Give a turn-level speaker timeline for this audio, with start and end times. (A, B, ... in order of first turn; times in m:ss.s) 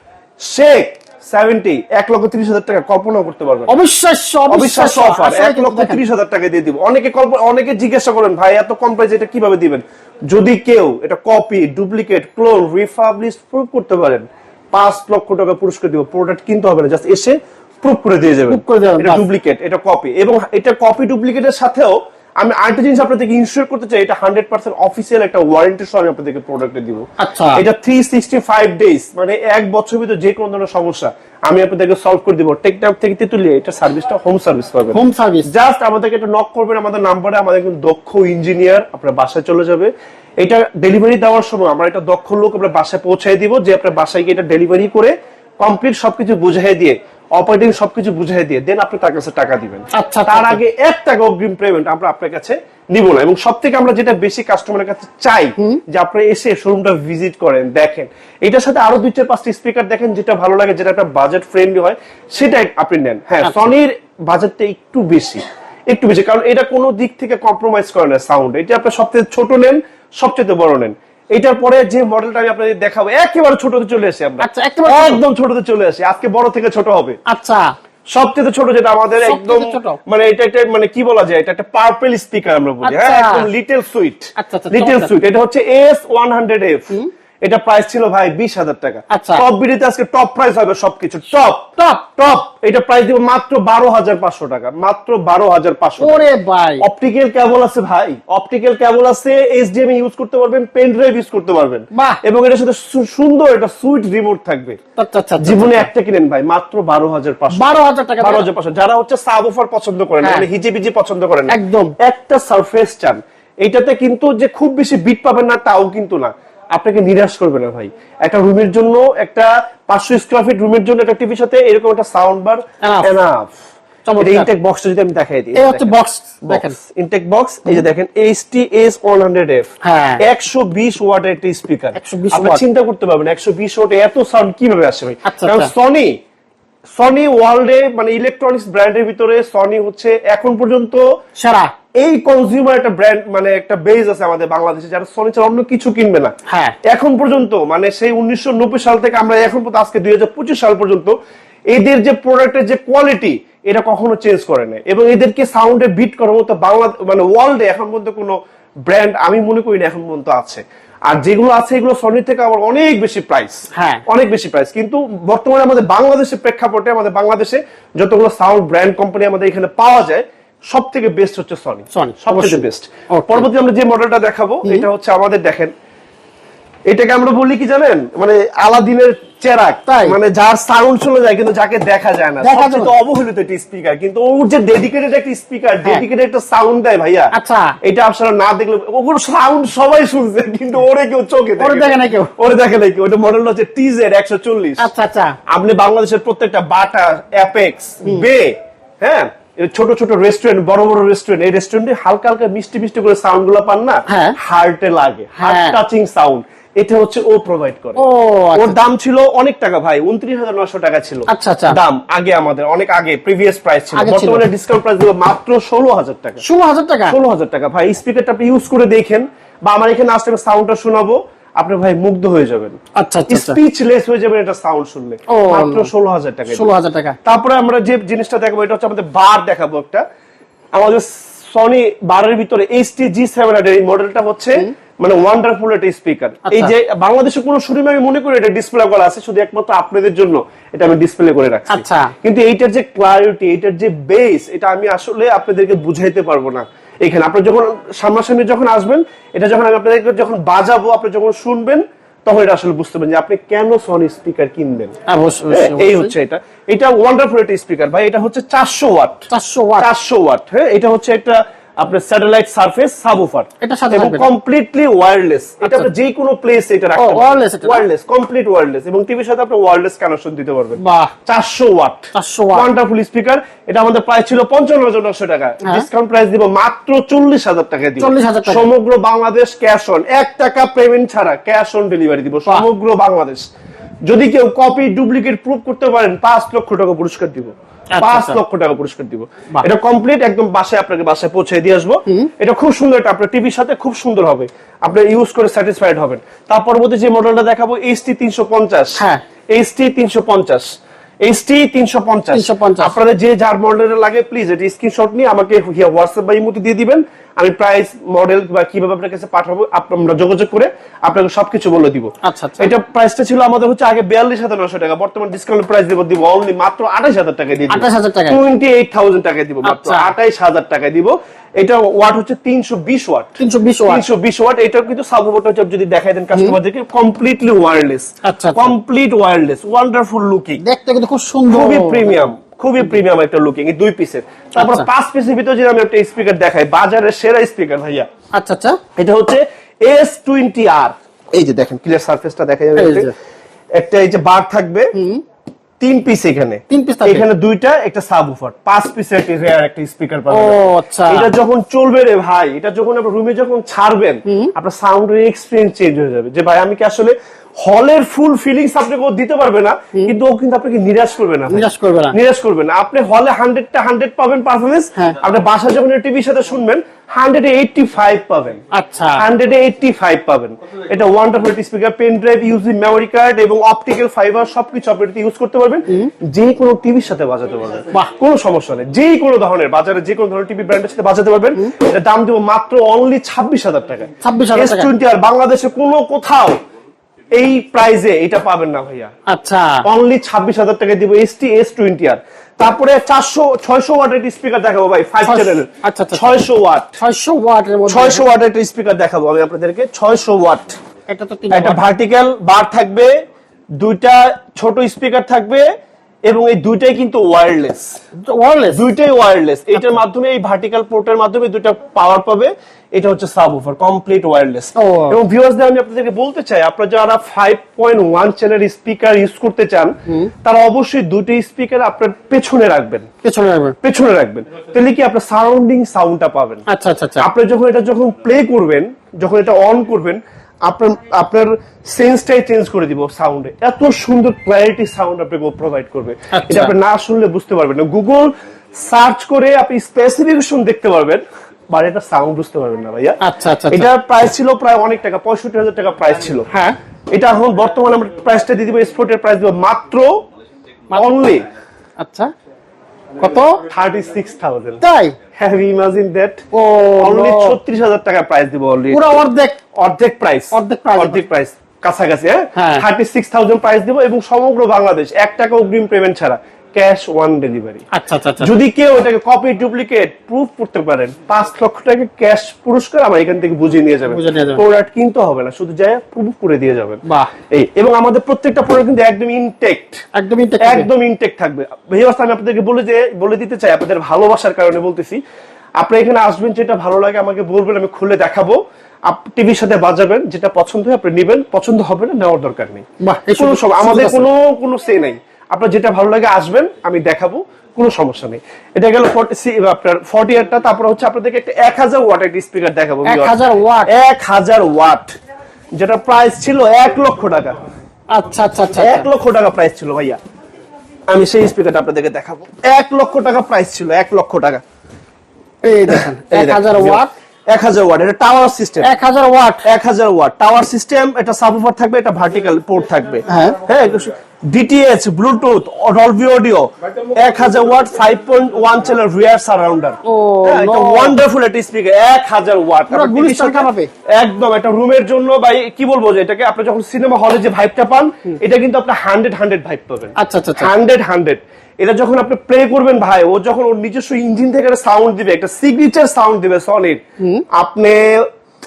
0:00.5-0:03.7 A
0:03.7-0:06.0 B
0:04.5-1:17.2 A
0:18.5-0:19.2 B
0:27.2-0:27.6 B
0:34.9-0:35.5 B
0:49.9-0:50.6 B
1:03.4-1:03.7 B
1:14.4-1:15.2 B
1:17.3-1:17.6 B
1:18.1-1:36.3 A
1:19.2-1:20.0 B
1:22.8-1:23.5 B
1:24.4-1:25.1 B
1:29.1-1:29.4 B
1:31.8-1:32.2 B
1:36.0-1:36.8 B
1:36.8-1:44.8 A
1:41.9-1:42.2 B
1:45.0-1:45.9 B
1:45.4-2:03.5 A
1:47.5-1:48.5 B
1:51.5-1:51.9 B
2:02.8-2:03.2 B
2:04.1-2:04.5 B
2:04.2-2:09.7 A
2:05.5-2:06.8 B
2:09.8-2:10.2 B
2:10.2-2:16.1 A
2:12.0-2:12.6 B
2:15.3-2:15.7 B
2:17.0-2:21.0 A
2:21.4-2:21.7 B
2:22.0-2:26.3 A
2:26.5-2:26.8 B
2:26.8-2:31.1 A
2:31.7-2:38.3 A
2:38.9-2:55.7 A
2:43.7-2:44.0 B
2:51.9-2:53.5 B
2:56.9-3:14.9 A
2:59.9-3:00.2 B
3:02.4-3:02.9 B
3:07.3-3:07.8 B
3:11.6-3:12.3 B
3:14.8-3:15.4 B
3:15.5-3:28.0 A
3:24.1-3:24.4 B
3:25.4-3:25.8 B
3:28.0-3:28.8 B
3:28.5-3:36.4 A
3:31.3-3:31.8 B
3:33.9-3:34.4 B
3:36.4-3:37.2 B
3:37.1-3:46.7 A
3:43.0-3:43.6 B
3:45.3-3:45.9 B
3:46.5-3:47.2 B
3:47.2-3:50.0 A
3:50.8-4:14.9 A
4:01.7-4:02.1 B
4:15.1-4:16.1 B
4:15.5-4:19.2 A
4:19.3-4:19.9 B
4:19.8-4:43.4 A
4:23.6-4:24.3 B
4:25.6-4:25.9 B
4:27.0-4:27.8 B
4:30.8-4:31.1 B
4:32.1-4:32.7 B
4:38.0-4:38.7 B
4:44.1-5:00.7 A
4:47.9-4:48.4 B
5:01.2-5:30.6 A
5:02.3-5:02.9 B
5:12.2-5:12.7 B
5:17.7-5:18.4 B
5:19.6-5:20.1 B
5:23.4-5:24.0 B
5:28.2-5:28.7 B
5:30.6-5:32.2 B
5:31.5-5:38.1 A
5:34.6-5:34.9 B
5:38.4-5:38.8 B
5:39.0-5:43.1 A
5:42.8-5:43.1 B
5:43.7-5:44.9 A
5:44.9-5:45.2 B
5:45.8-6:08.6 A
5:46.7-5:47.2 B
5:50.3-5:51.3 B
5:54.2-5:54.5 B
6:01.5-6:02.2 B
6:08.7-6:09.2 B
6:09.2-6:26.6 A
6:24.2-6:24.9 B
6:27.3-6:29.1 A
6:29.3-6:29.8 B
6:29.8-6:37.0 A
6:35.2-6:36.4 B
6:37.0-6:38.3 B
6:37.8-6:40.8 A
6:41.1-6:41.8 B
6:41.5-6:43.1 A
6:43.8-6:45.6 A
6:46.3-6:48.0 A
6:48.2-6:48.8 B
6:48.7-7:03.1 A
6:54.8-6:55.2 B
7:03.2-7:03.8 B
7:03.8-7:06.6 A
7:06.7-7:07.3 B
7:07.2-7:23.2 A
7:16.3-7:16.7 B
7:23.2-7:23.9 B
7:23.7-7:26.5 A
7:26.5-7:26.8 B
7:27.1-7:30.2 A
7:30.9-7:31.4 A
7:32.0-7:32.3 B
7:33.2-7:33.6 B
7:33.7-7:34.8 A
7:34.8-7:35.2 B
7:35.3-7:36.4 A
7:36.5-7:37.6 B
7:37.0-7:39.0 A
7:38.9-7:39.6 B
7:39.7-7:47.8 A
7:40.5-7:41.2 B
7:42.6-7:42.8 B
7:47.9-7:48.6 B
7:48.4-8:00.0 A
7:54.1-7:54.6 B
7:57.0-7:57.3 B
8:00.1-8:00.9 B
8:00.6-8:05.2 A
8:05.8-8:08.6 A
8:09.1-8:12.8 A
8:13.0-8:14.3 B
8:13.4-8:23.3 A
8:23.0-8:23.9 B
8:23.9-8:25.1 A
8:25.7-8:27.5 A
8:28.1-8:29.1 B
8:28.7-8:30.2 A
8:31.1-8:34.6 A
8:35.6-8:37.1 B
8:35.9-8:38.9 A
8:38.8-8:39.6 B
8:39.6-9:07.0 A
8:43.3-8:43.6 B
8:50.0-8:51.2 B
8:52.9-8:53.9 B
9:00.2-9:00.7 B
9:07.5-9:08.0 A